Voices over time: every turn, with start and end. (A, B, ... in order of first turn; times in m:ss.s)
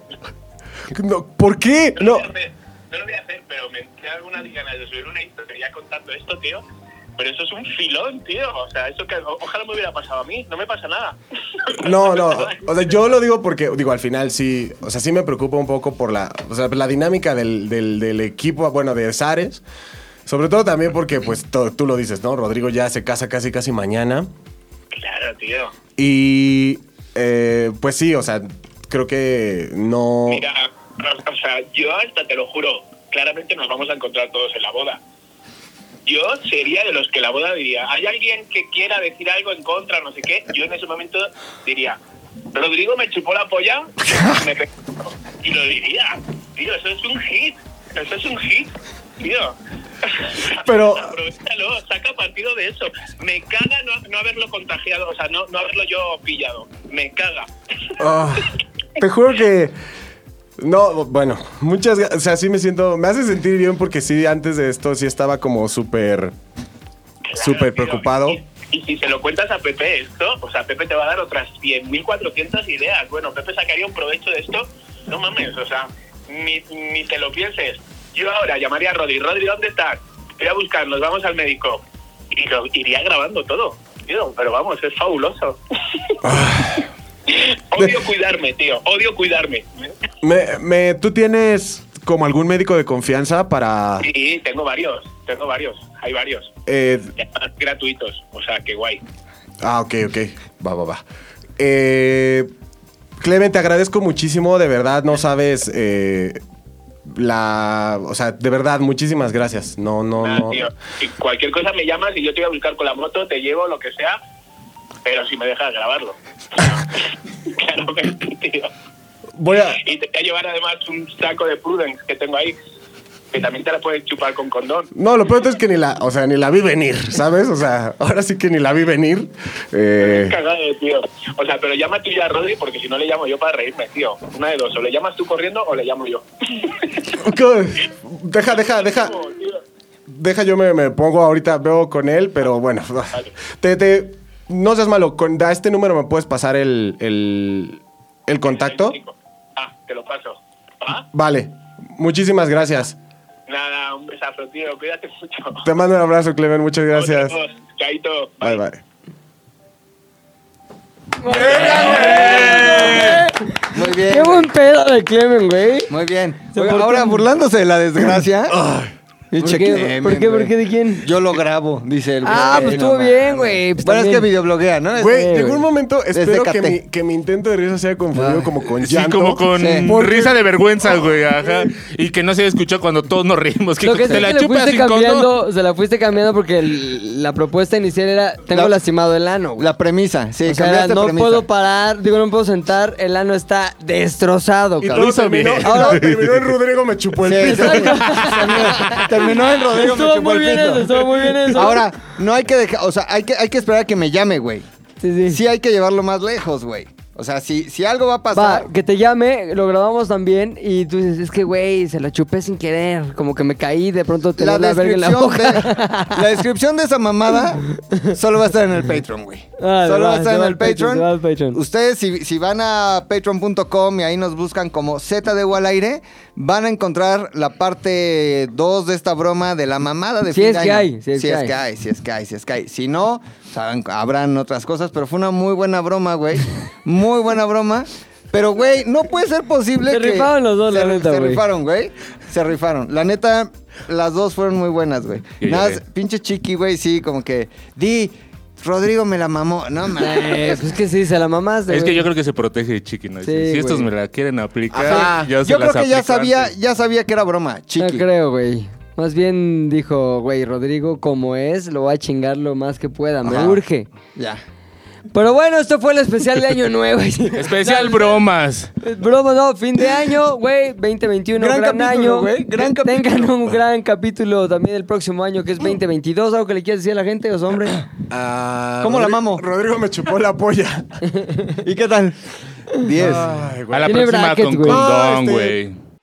0:00.9-0:02.3 A
0:02.0-0:06.6 B
0:07.2-0:12.7 B
0:11.8-0:19.6 A
0:20.3-0:24.3 A
0:24.9-0:25.8 B
0:26.0-0:30.5 A
0:30.3-0:35.0 B
0:36.1-0:42.0 B
0:42.5-0:57.9 B
0:44.0-0:44.5 A
0:50.5-0:51.2 A
0:58.0-0:59.8 A
1:00.6-1:06.4 A
1:07.3-1:26.2 B
1:07.4-1:08.4 A
1:26.2-1:26.9 A
1:27.3-1:29.9 B
1:30.2-1:34.1 A
1:34.0-1:36.5 B
1:36.7-1:37.1 A
1:37.2-1:39.0 B
1:39.6-1:41.0 A
1:41.6-1:42.5 A
1:43.2-1:46.4 A
1:47.1-1:50.6 A
1:50.2-1:54.2 B
1:55.0-1:57.0 B
1:57.5-1:58.7 B
1:59.4-1:59.8 A
1:59.5-2:02.6 B
2:03.3-2:04.9 B
2:04.9-2:10.4 A
2:10.0-2:16.9 B
2:17.1-2:19.2 A
2:18.5-2:19.6 B
2:20.1-2:29.0 A
2:28.5-2:31.1 B
2:31.1-2:33.0 A
2:33.5-2:35.7 B
2:35.6-2:37.4 A
2:36.9-2:38.6 B
2:38.4-2:38.8 A
2:41.2-2:45.9 C
2:41.3-2:43.1 A
2:41.6-2:42.9 D
2:41.9-2:43.1 E
2:43.7-2:44.5 E
2:45.9-2:48.6 E
2:46.5-2:47.2 C
2:48.5-2:48.9 A
2:49.3-2:51.1 C
2:49.4-2:56.8 E
2:52.2-2:54.3 C
2:52.4-2:52.8 A
2:55.0-3:01.7 A
2:58.1-2:58.5 E
2:58.6-3:05.3 D
2:59.5-2:59.9 E
3:03.8-3:09.7 C
3:08.5-3:08.8 E
3:09.6-3:11.5 E
3:10.4-3:15.0 C
3:14.8-3:16.6 D
3:14.9-3:18.0 A
3:15.6-3:16.0 C
3:17.2-3:24.7 E
3:17.4-3:21.8 C
3:18.0-3:19.2 D
3:25.0-3:25.4 C
3:25.2-3:28.7 E
3:28.3-3:36.4 C
3:34.4-4:10.7 E
3:39.6-3:41.6 C
3:50.3-3:51.5 C
3:59.9-4:01.4 C
4:05.4-4:05.8 D
4:10.0-4:12.1 C
4:11.7-4:16.5 D
4:13.2-4:13.9 C
4:14.7-4:15.3 A
4:14.8-4:18.1 E
4:17.8-4:23.9 C
4:23.2-4:23.6 E
4:24.2-4:24.4 E
4:25.1-4:28.2 C
4:27.4-4:28.7 D
4:28.8-4:37.8 C
4:31.4-4:33.5 E
4:38.1-4:40.9 A
4:38.8-4:39.4 E
4:41.6-4:42.2 E
4:42.8-4:43.5 E
4:43.0-4:44.0 A
4:43.7-4:45.8 D
4:43.9-4:44.8 C
4:44.7-4:45.6 A